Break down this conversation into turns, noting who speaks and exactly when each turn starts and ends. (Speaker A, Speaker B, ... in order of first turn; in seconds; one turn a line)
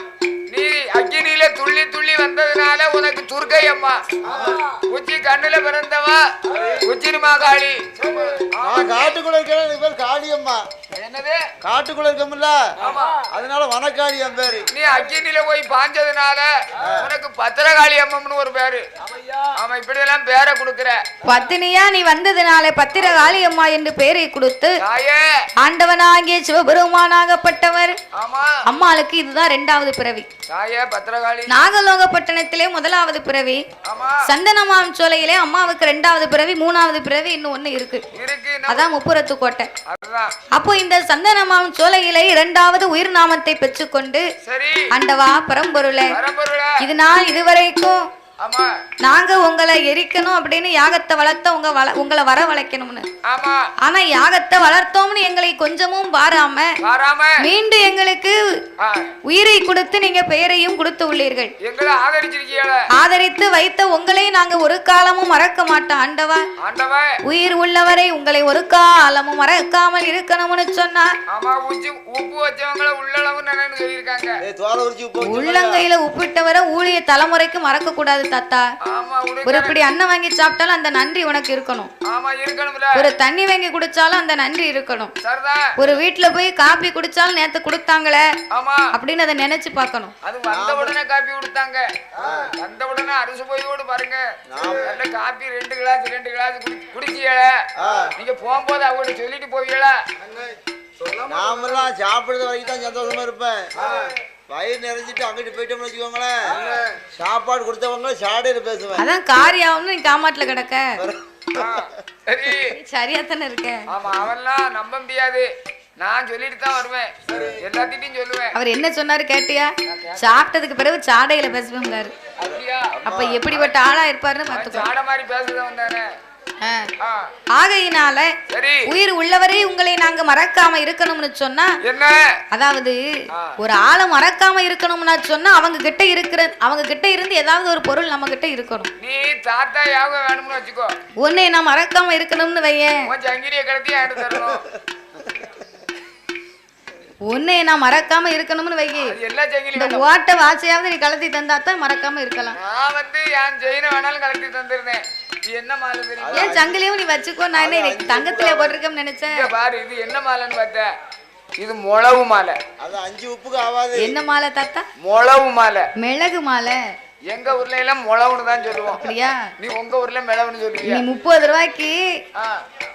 Speaker A: 0.5-4.0
Speaker B: 4.3-4.5
Speaker A: 4.8-9.2
Speaker B: 8.6-10.7
Speaker A: 10.9-11.4
Speaker B: 11.6-12.7
Speaker A: 12.8-13.2
Speaker B: 13.3-14.7
Speaker A: 14.7-18.9
Speaker B: 16.8-17.1
Speaker A: 19.4-21.0
Speaker C: 21.2-24.8
Speaker A: 24.8-25.2
Speaker C: 25.6-28.0
Speaker A: 28.1-28.5
Speaker C: 28.6-30.3
Speaker A: 30.5-31.6
Speaker C: 31.5-33.6
Speaker A: 33.8-34.2
Speaker C: 34.2-38.0
Speaker A: 38.1-38.9
Speaker C: 38.7-39.7
Speaker A: 39.9-40.4
Speaker C: 40.5-44.2
Speaker A: 44.4-44.9
Speaker C: 44.9-46.1
Speaker A: 46.1-46.8
Speaker C: 46.8-48.0
Speaker A: 48.4-48.7
Speaker C: 49.0-53.1
Speaker A: 53.2-53.6
Speaker C: 53.8-56.7
Speaker A: 56.8-57.4
Speaker C: 57.4-58.4
Speaker A: 58.8-59.1
Speaker C: 59.3-61.5
Speaker A: 61.6-62.8
Speaker C: 62.9-66.5
Speaker A: 66.6-67.1
Speaker C: 67.2-71.1
Speaker A: 71.3-74.4
Speaker B: 74.4-75.8
Speaker C: 75.2-78.7
Speaker A: 78.8-79.8
Speaker C: 79.5-81.9
Speaker A: 82.1-83.0
Speaker C: 83.0-85.1
Speaker A: 85.2-85.7
Speaker C: 85.8-88.3
Speaker A: 88.5-88.9
Speaker C: 88.9-90.1
Speaker A: 90.2-91.9
Speaker B: 90.5-90.9
Speaker B: 92.2-92.5
Speaker A: 92.5-94.2
Speaker B: 94.5-94.9
Speaker A: 94.8-97.5
Speaker B: 97.8-98.1
Speaker A: 98.1-100.0
Speaker B: 101.2-103.7
Speaker B: 104.5-109.0
Speaker C: 109.0-111.0
Speaker B: 111.0-111.8
Speaker A: 111.5-112.8
Speaker C: 112.6-113.9
Speaker A: 113.9-115.5
Speaker A: 116.0-118.5
Speaker C: 118.5-122.1
Speaker A: 122.4-123.7
Speaker B: 122.4-123.5
Speaker C: 123.0-124.9
Speaker A: 124.5-126.1
Speaker C: 126.6-126.9
Speaker A: 127.0-127.3
Speaker C: 127.5-128.3
Speaker A: 128.5-128.8
Speaker C: 128.9-131.7
Speaker A: 131.8-132.2
Speaker C: 132.5-133.0
Speaker C: 133.6-138.9
Speaker A: 139.0-140.9
Speaker C: 141.2-143.0
Speaker A: 143.0-144.7
Speaker B: 145.2-145.4
Speaker C: 147.3-149.2
Speaker A: 149.0-150.0
Speaker C: 149.8-152.6
Speaker A: 152.5-156.6
Speaker B: 156.2-156.7
Speaker C: 156.3-159.4
Speaker B: 157.6-158.8
Speaker A: 159.2-160.9
Speaker A: 161.6-162.6
Speaker B: 162.8-164.1
Speaker C: 164.0-164.8
Speaker A: 165.0-165.9
Speaker C: 166.0-166.8
Speaker A: 167.3-171.0
Speaker C: 168.8-169.5
Speaker C: 170.8-172.0
Speaker A: 172.3-172.6